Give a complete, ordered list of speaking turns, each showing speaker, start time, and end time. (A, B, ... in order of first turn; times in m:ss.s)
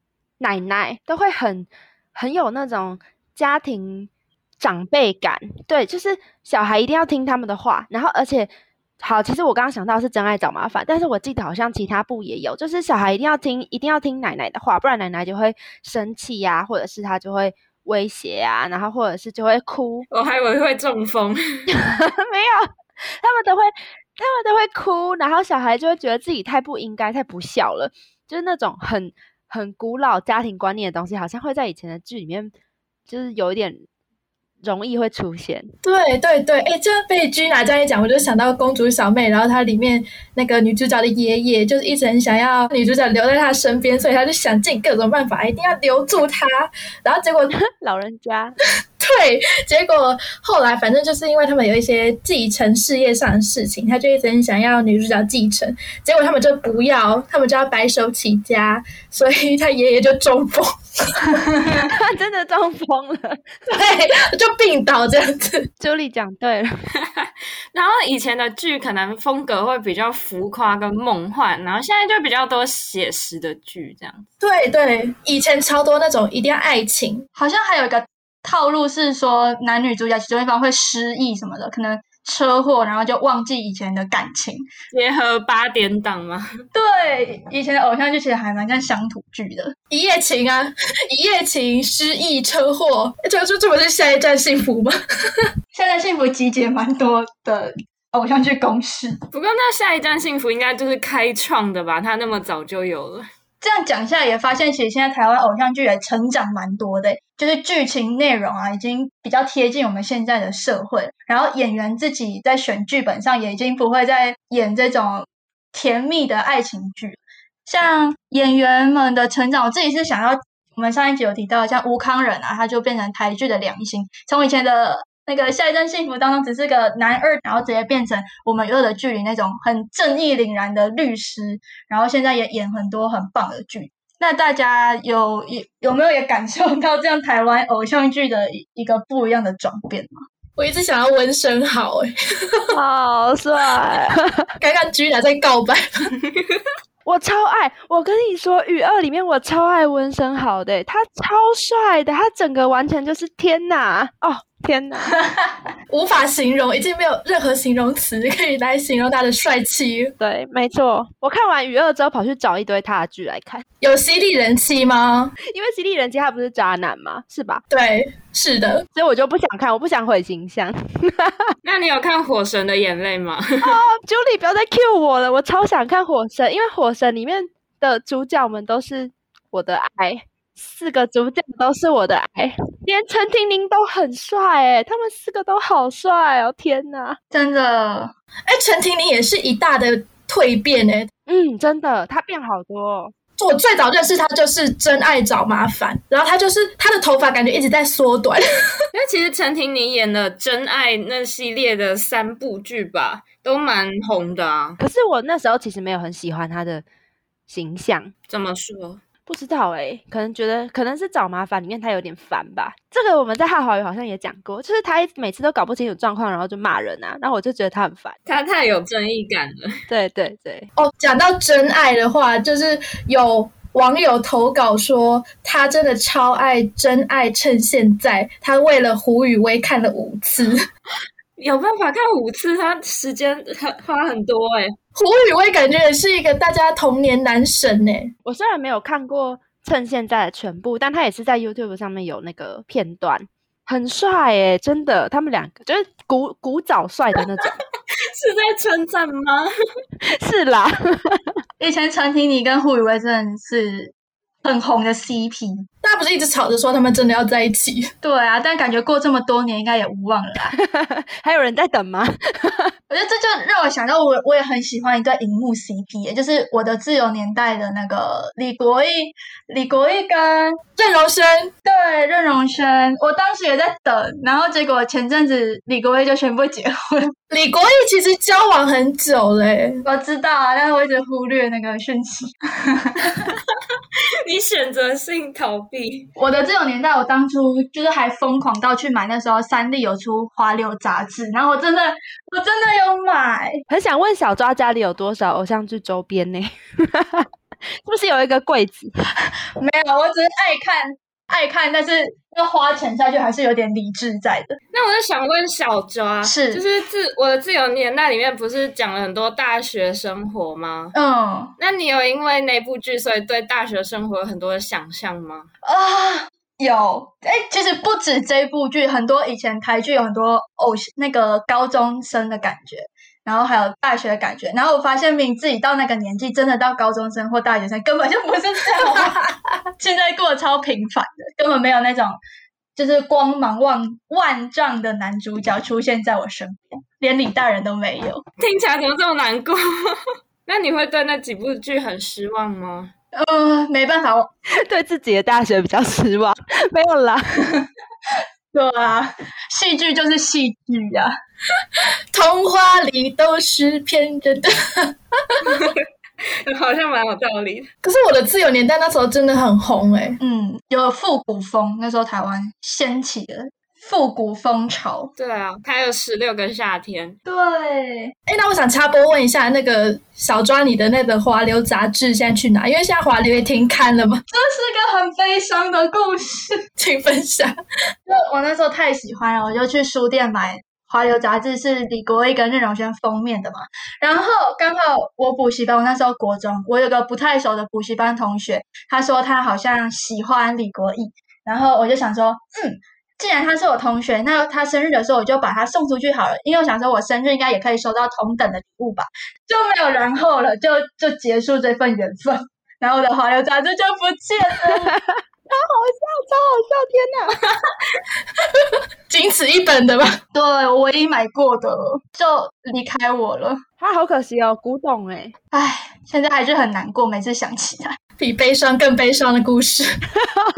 0:00.4-0:20.1 A
0:20.1-0:21.7 B
0:21.7-0:32.5 A
0:33.1-0:33.8 A
0:34.6-0:35.7 A
0:35.8-0:47.5 C
0:47.5-0:48.5 A
0:49.0-1:01.3 C
1:01.8-1:03.4 A
1:03.7-1:05.7 C
1:05.8-1:06.7 A
1:07.0-1:14.3 B
1:14.4-1:17.3 C
1:17.4-1:24.6 D
1:24.9-1:26.5 B
1:26.8-1:29.8 D
1:29.9-1:35.5 C
1:35.7-1:39.2 D
1:39.3-1:43.3 B
1:43.6-2:20.2 D
2:20.6-2:22.8 C
2:22.7-2:24.5 A
2:24.6-2:26.1 C
2:27.0-2:35.2 A
2:35.9-2:40.1 C
2:40.2-2:43.6 A
2:43.8-2:45.3 C
2:45.4-2:47.6 A
2:47.7-2:48.8 C
2:49.0-2:51.5 A
2:51.6-2:53.8 B
2:53.6-3:07.2 A
3:07.3-3:08.1 D
3:08.5-3:11.1 C
3:11.3-3:13.1 A
3:13.4-3:18.4 C
3:18.9-3:24.8 B
3:24.8-3:26.8 A
3:27.5-3:28.1 A
3:28.3-3:29.0 B
3:29.3-3:38.2 A
3:38.3-3:39.8 B
3:39.9-3:40.7 A
3:40.8-3:50.7 C
3:51.4-3:54.8 B
3:55.0-3:58.1 C
3:58.2-4:07.6 A
4:08.0-4:09.5 B
4:10.0-4:11.2 A
4:11.6-4:15.7 D
4:15.8-4:17.9 C
4:18.0-4:20.5 D
4:20.5-4:22.7 A
4:22.9-4:30.6 D
4:30.8-4:31.5 C
4:31.6-4:37.1 D
4:37.3-4:39.8 C
4:39.8-4:43.2 D
4:44.2-4:46.1 B
4:46.2-4:53.6 D
4:53.7-4:57.3 A
4:57.8-4:58.9 A
4:59.6-5:04.6 D
5:04.7-5:11.0 B
5:06.2-5:06.6 D
5:11.0-5:11.5 D
5:11.6-5:15.5 B
5:15.6-5:29.2 D
5:29.8-5:32.2 D
5:32.8-5:38.2 D
5:38.4-5:42.9 B
5:43.1-5:44.3 D
5:44.5-5:47.5 A
5:48.5-5:51.1 D
5:52.1-5:55.6 C
5:55.4-5:57.7 B
5:57.8-6:00.2 C
6:00.2-6:05.1 D
6:05.2-6:07.2 B
6:07.2-6:08.1 D
6:08.3-6:14.2 C
6:14.3-6:16.6 D
6:16.8-6:17.6 C
6:18.1-6:45.0 D
6:45.0-6:47.4 A
6:49.1-6:50.2 C
6:50.3-6:53.6 D
6:53.8-6:55.3 A
6:55.5-6:58.0 D
6:58.2-6:59.9 C